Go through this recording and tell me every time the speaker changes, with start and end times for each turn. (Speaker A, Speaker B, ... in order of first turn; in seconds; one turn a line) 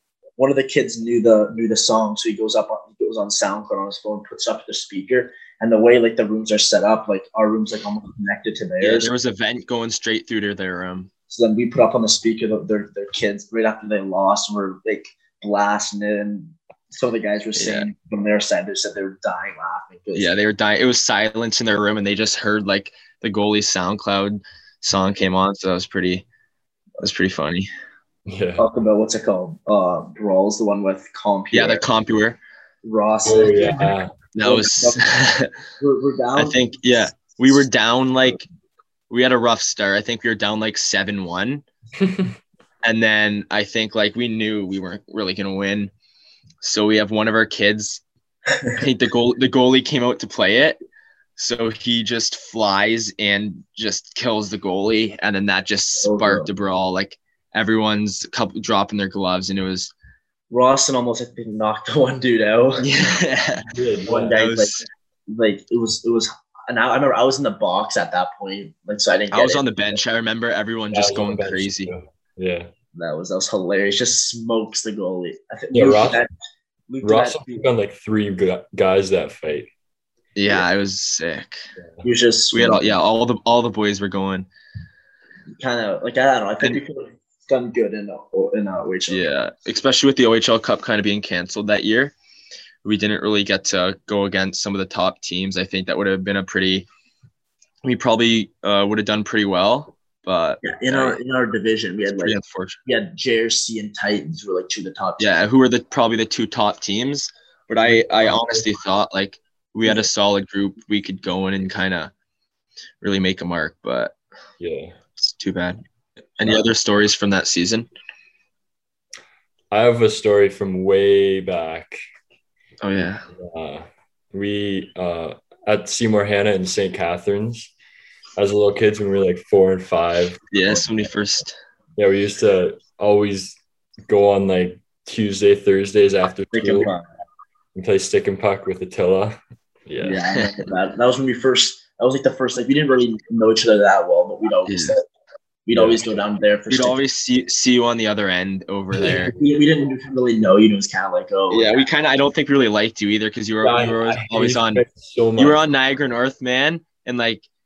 Speaker A: 0.4-9.1
Speaker B: 8.8-11.1
Speaker A: 11.3-20.4
Speaker B: 17.6-17.9
Speaker B: 20.1-26.2
Speaker B: 27.0-27.7
Speaker C: 28.3-28.6
Speaker A: 28.6-31.9
Speaker B: 31.5-32.4
Speaker A: 32.8-35.0
Speaker C: 33.2-34.1
Speaker B: 34.3-35.5
Speaker A: 35.8-36.6
Speaker B: 36.4-38.5
Speaker B: 39.1-41.6
Speaker C: 42.0-42.4
Speaker B: 42.8-45.9
Speaker B: 46.6-48.0
Speaker B: 48.8-50.8
Speaker B: 51.4-59.9
Speaker A: 56.0-56.5
Speaker A: 60.5-62.9
Speaker B: 62.8-63.7
Speaker C: 63.7-64.4
Speaker A: 64.1-70.0
Speaker B: 64.3-64.8
Speaker B: 69.3-71.9
Speaker C: 70.9-72.7
Speaker A: 73.0-76.3
Speaker C: 75.7-76.2
Speaker A: 76.9-77.7
Speaker C: 77.0-79.7
Speaker B: 80.4-81.7
Speaker C: 81.8-82.0
Speaker A: 82.0-83.0
Speaker B: 82.5-84.5
Speaker A: 85.6-89.2
Speaker B: 89.1-92.2
Speaker B: 92.8-96.9
Speaker B: 97.8-101.2
Speaker A: 100.6-105.3
Speaker B: 102.2-102.8
Speaker B: 105.2-112.1
Speaker C: 107.8-108.6
Speaker B: 113.0-114.2
Speaker C: 114.6-115.0
Speaker B: 115.2-115.8
Speaker B: 116.4-117.9
Speaker C: 119.7-122.0
Speaker B: 122.8-123.3
Speaker C: 123.3-127.7
Speaker C: 128.4-130.8
Speaker B: 130.5-131.6
Speaker C: 132.0-136.9
Speaker A: 136.5-137.1
Speaker C: 137.8-140.2
Speaker A: 140.0-145.1
Speaker B: 144.7-145.0
Speaker A: 145.7-147.0
Speaker C: 145.7-146.1
Speaker B: 146.7-149.3
Speaker C: 149.0-149.3
Speaker A: 149.1-151.8
Speaker B: 151.5-154.8
Speaker C: 153.6-155.6
Speaker B: 155.4-157.5